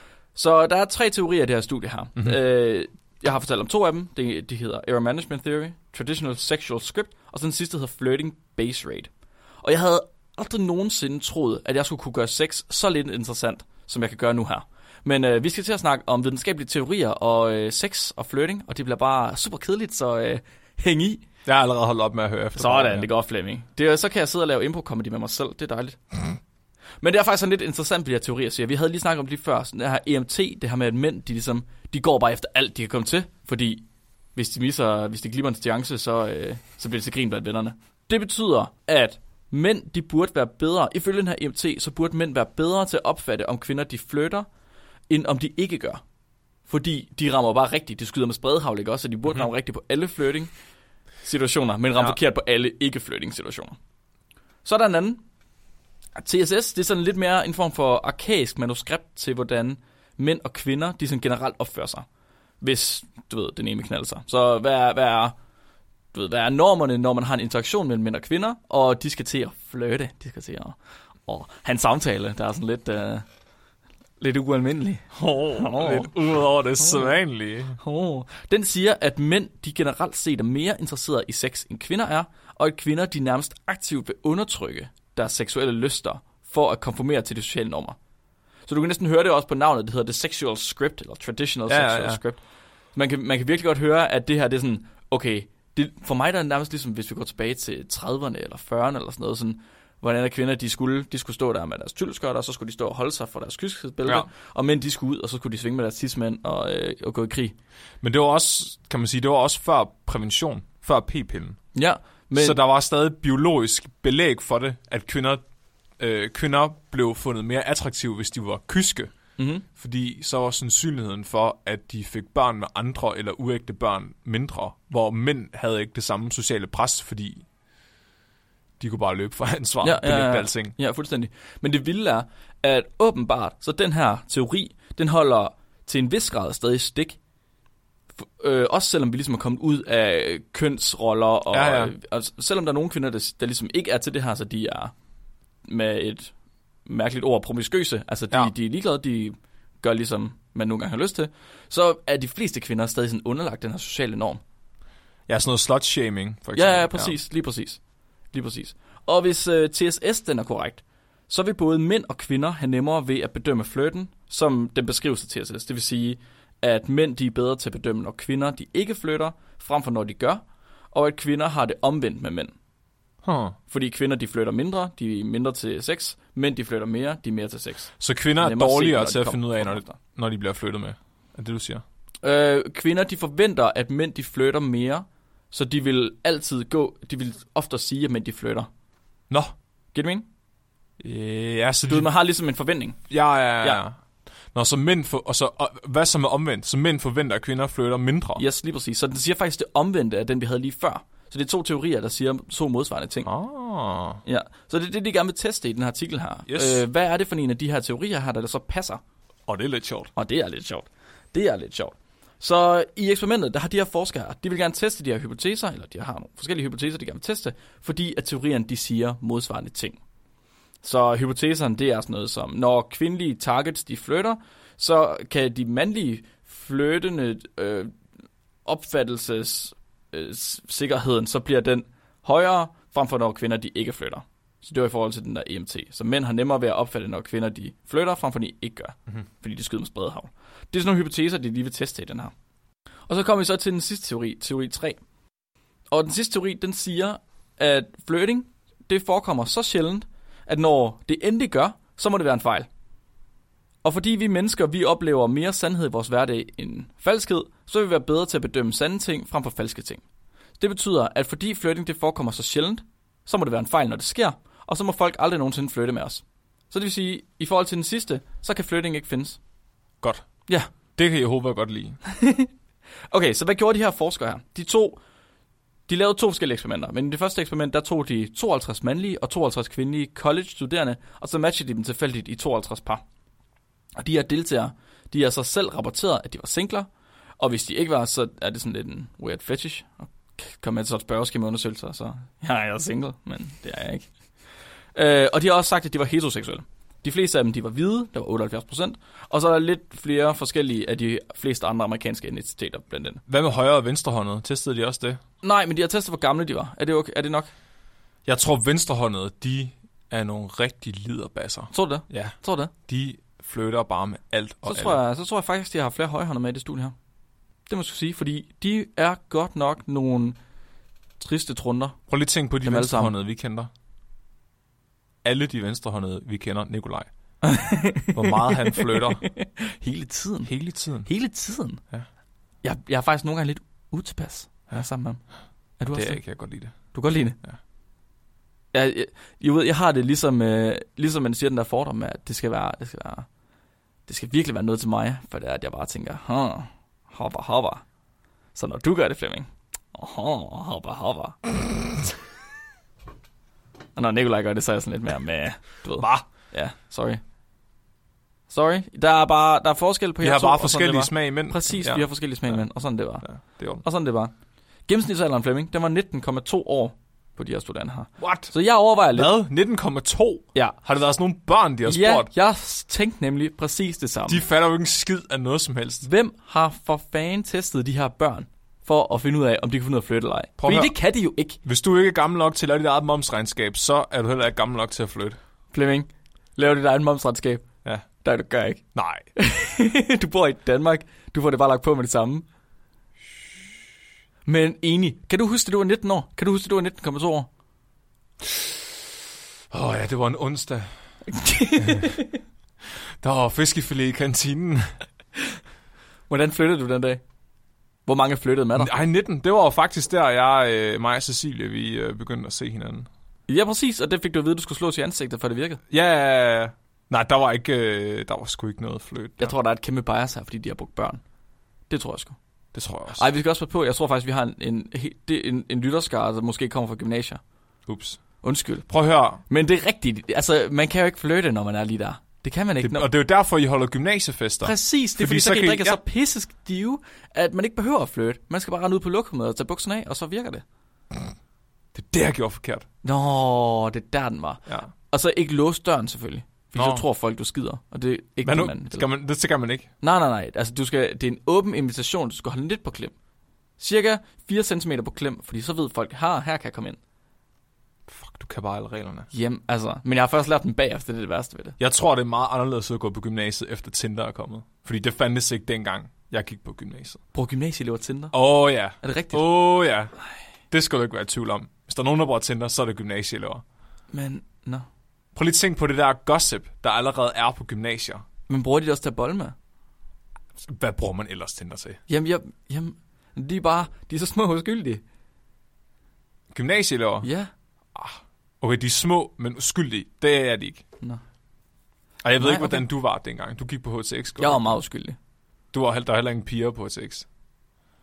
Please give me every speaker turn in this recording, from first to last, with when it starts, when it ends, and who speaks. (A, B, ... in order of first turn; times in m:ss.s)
0:00.3-0:09.1 A
0:09.6-0:21.2 A
0:21.4-0:23.1 B
0:22.5-0:26.0 A
0:27.0-0:44.5 A
0:45.1-0:46.0 A
0:46.7-0:50.5 A
0:51.2-0:53.8 A
0:54.6-0:55.2 A
0:56.2-1:02.0 A
1:02.6-1:05.3 A
1:06.1-1:13.2 A
1:14.2-1:16.1 A
1:15.1-1:17.8 B
1:16.8-1:17.2 A
1:17.8-1:28.0 A
1:28.6-1:32.4 A
1:31.7-1:32.2 B
1:32.9-1:47.5 A
1:48.0-1:51.6 B
1:51.7-1:52.6 A
1:52.3-1:55.4 B
1:56.0-1:59.1 B
1:59.4-1:59.6 A
1:59.7-2:07.4 B
2:08.8-2:10.7 B
2:09.8-2:17.2 A
2:18.2-2:24.9 A
2:21.5-2:21.9 B
2:25.6-2:26.3 A
2:26.8-2:34.4 A
2:35.3-2:37.2 B
2:36.5-2:37.8 A
2:38.3-2:52.5 A
2:53.2-2:53.6 B
2:53.7-3:00.0 A
2:58.0-3:01.8 B
3:02.2-3:08.7 A
3:09.9-3:10.2 A
3:11.0-3:12.1 B
3:11.9-3:13.8 A
3:13.1-3:14.0 B
3:14.5-3:18.4 B
3:18.4-3:23.3 A
3:23.2-3:24.2 B
3:24.2-3:29.0 A
3:26.5-3:26.8 B
3:29.5-3:30.1 B
3:30.1-3:40.0 A
3:40.8-3:47.9 A
3:48.6-4:02.3 A
4:03.1-4:05.0 A
4:05.9-4:12.7 A
4:13.8-4:20.0 A
4:20.6-4:29.4 A
4:30.9-4:32.0 B
4:32.0-4:32.5 A
4:33.1-4:35.0 A
4:35.9-4:43.0 A
4:44.0-4:54.1 A
4:54.9-5:03.2 A
5:03.3-5:05.2 B
5:05.4-5:07.5 A
5:08.2-5:12.3 B
5:11.7-5:12.7 A
5:12.9-5:15.0 B
5:14.6-5:16.9 A
5:17.7-5:20.4 A
5:21.2-5:22.0 A
5:22.1-5:23.7 B
5:22.6-5:23.1 A
5:25.2-5:27.1 B
5:27.4-5:30.5 A
5:28.1-5:29.2 B
5:30.4-5:31.1 B
5:31.0-5:31.8 A
5:32.6-5:35.2 A
5:35.8-5:36.2 A
5:35.8-5:36.8 B
5:36.9-5:37.4 A
5:38.7-5:43.3 A
5:44.1-5:47.8 A
5:48.5-5:51.4 A
5:54.0-5:57.2 A
5:56.0-5:56.2 B
5:58.5-6:03.2 A
6:00.2-6:02.6 B
6:03.2-6:03.8 B
6:03.8-6:04.3 A
6:04.9-6:09.3 A
6:08.2-6:08.5 B
6:09.1-6:12.3 B
6:11.8-6:14.4 A
6:14.3-6:16.1 B
6:16.0-6:21.6 A
6:20.6-6:20.9 B
6:21.6-6:25.4 B
6:25.7-6:27.6 A
6:28.2-6:28.8 A
6:28.9-6:29.2 B
6:29.4-6:32.4 A
6:34.4-6:37.5 A
6:39.7-6:40.9 B
6:41.2-6:42.4 A
6:41.8-6:42.1 B
6:43.2-6:44.9 B
6:46.3-6:47.2 A
6:48.0-6:48.9 A
6:48.8-6:53.1 B
6:53.5-6:55.8 A
6:55.9-6:59.5 B
6:59.4-7:01.2 A
7:01.9-7:02.4 A
7:02.7-7:03.2 B
7:03.1-7:07.4 A
7:07.9-7:08.2 B
7:08.4-7:08.8 A
7:08.9-7:09.4 B
7:09.5-7:13.1 A
7:12.8-7:16.0 B
7:14.6-7:20.6 A
7:21.9-7:22.8 B
7:23.0-7:29.0 A
7:24.7-7:24.9 B
7:26.8-7:27.0 B
7:28.4-7:29.9 B
7:30.0-7:33.1 A
7:33.8-7:37.0 A
7:38.1-7:39.3 B
7:39.3-7:41.8 A
7:41.8-7:47.2 B
7:47.3-7:48.3 A
7:48.3-7:50.1 B
7:49.0-7:49.5 A
7:50.7-7:53.6 B
7:54.1-7:54.8 A
7:55.3-7:58.2 B
7:58.5-7:59.5 A
8:00.6-8:02.0 B
8:02.1-8:05.0 A
8:06.5-8:07.3 B
8:07.2-8:07.5 A
8:07.9-8:10.8 B
8:12.2-8:14.8 B
8:12.4-8:12.8 A
8:14.4-8:15.2 A
8:15.7-8:17.2 B